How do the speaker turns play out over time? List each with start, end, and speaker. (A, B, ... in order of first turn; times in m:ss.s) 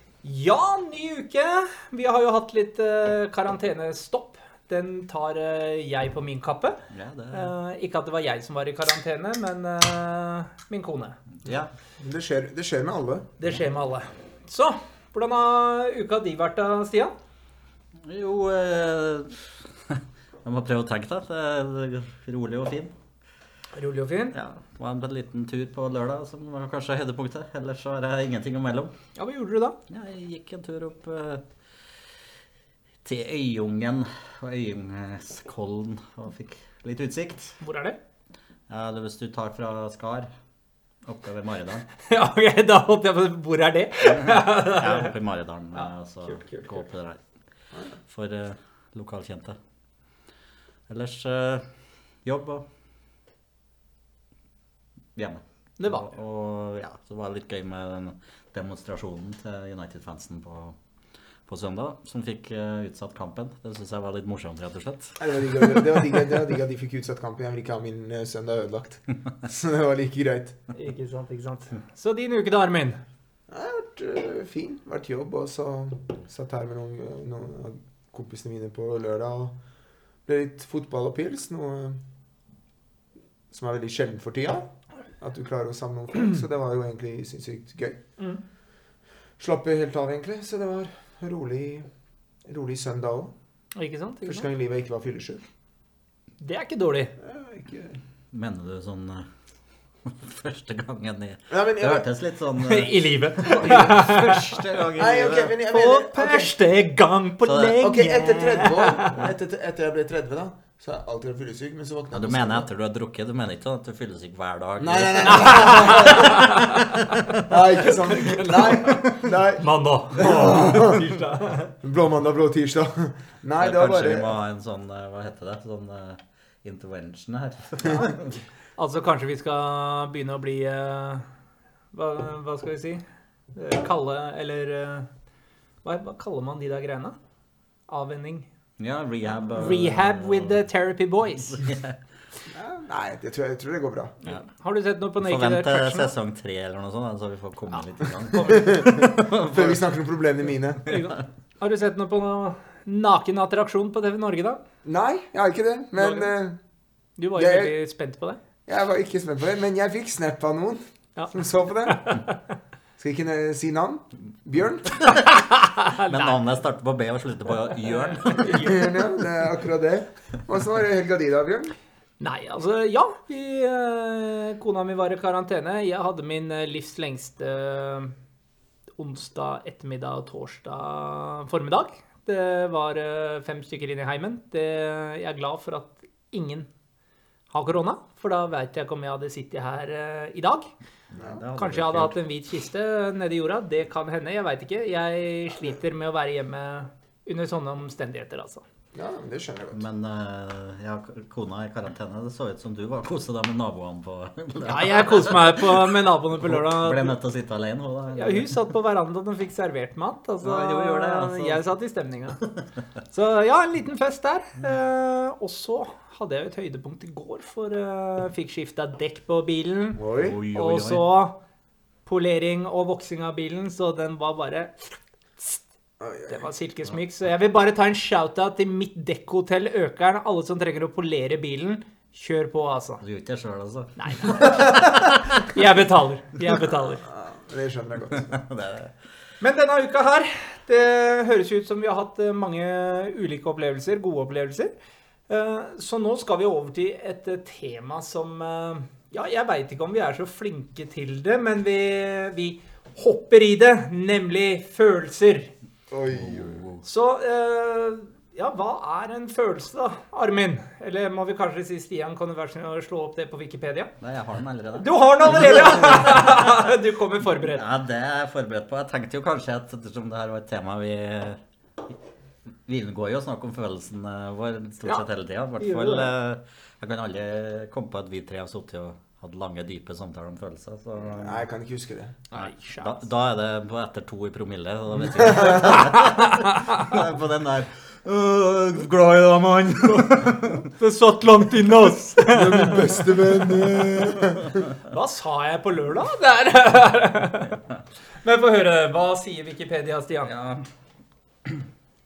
0:00.2-0:06.8 A
0:06.9-0:07.5 B
0:07.3-0:11.2 A
0:11.4-0:11.7 B
0:12.0-0:13.3 C
0:13.4-0:17.1 A
0:18.0-0:22.9 B
0:23.8-0:24.4 A
0:24.3-0:28.9 B
0:29.2-0:29.8 A
0:29.9-0:31.9 B
0:33.0-0:37.6 B
0:37.6-0:38.0 A
0:38.7-0:40.3 B
0:41.0-0:41.9 B
0:42.0-0:45.1 A
0:44.0-0:47.2 B
0:45.8-0:46.8 A
0:48.1-0:49.6 B
0:50.9-0:52.7 B
0:55.2-1:00.8 B
0:55.8-0:56.0 A
1:01.5-1:05.2 B
1:05.2-1:10.6 C
1:10.7-1:13.0 A
1:13.5-1:19.6 C
1:20.3-1:22.0 C
1:23.5-1:28.0 C
1:29.4-1:31.9 C
1:32.5-1:33.3 C
1:33.8-1:34.5 A
1:34.2-1:35.4 C
1:36.4-1:37.2 A
1:37.2-1:38.0 C
1:38.3-1:39.3 B
1:40.0-1:45.6 B
1:41.5-1:42.1 C
1:42.6-1:44.5 A
1:43.4-1:44.1 C
1:45.0-1:46.5 C
1:45.7-1:49.2 A
1:47.5-1:48.0 B
1:47.8-1:52.7 C
1:52.1-1:57.4 B
1:54.8-1:56.7 C
1:55.3-1:56.8 A
1:57.4-2:01.0 C
1:58.1-2:01.7 A
2:01.8-2:04.4 C
2:03.6-2:08.4 B
2:08.8-2:11.3 A
2:11.9-2:13.0 A
2:13.5-2:15.1 A
2:15.8-2:17.2 A
2:17.9-2:18.5 A
2:18.8-2:20.6 B
2:19.5-2:21.6 A
2:21.4-2:22.0 B
2:22.5-2:24.2 C
2:24.2-2:26.1 A
2:25.2-2:29.8 B
2:28.3-2:28.7 A
2:28.4-2:30.9 C
2:30.9-2:34.6 A
2:34.8-2:36.6 C
2:36.0-2:36.3 A
2:37.2-2:38.4 A
2:37.4-2:37.8 C
2:38.7-2:42.1 C
2:41.9-2:42.4 A
2:43.0-2:45.0 C
2:45.1-2:46.4 A
2:46.0-2:48.7 B
2:47.7-2:48.9 A
2:48.5-2:51.8 C
2:52.2-2:58.2 A
2:59.0-3:06.7 A
3:07.5-3:10.7 A
3:11.1-3:12.2 B
3:11.2-3:11.4 C
3:11.6-3:18.6 A
3:18.9-3:19.8 C
3:19.7-3:28.6 B
3:24.6-3:27.2 A
3:28.2-3:32.4 A
3:30.4-3:31.6 B
3:33.1-3:41.4 A
3:40.0-3:40.4 C
3:40.2-3:41.1 B
3:42.0-3:45.6 A
3:46.0-3:46.5 C
3:46.3-3:53.0 A
3:53.0-3:55.5 B
3:54.0-3:57.0 A
3:57.0-3:58.3 C
3:58.1-3:59.0 B
3:59.4-4:04.7 A
4:05.3-4:15.5 A
4:15.9-4:16.6 C
4:16.1-4:16.8 B
4:16.8-4:23.9 A
4:24.0-4:26.6 B
4:24.8-4:27.6 A
4:27.3-4:32.0 B
4:32.7-4:41.4 B
4:35.6-4:36.1 A
4:41.0-4:42.2 C
4:42.3-4:43.0 A
4:42.4-4:50.7 B
4:45.1-4:45.8 C
4:45.9-4:46.9 A
4:50.6-4:53.3 A
4:52.3-4:54.6 C
4:54.8-4:57.6 A
4:58.2-5:00.3 A
5:00.3-5:00.7 B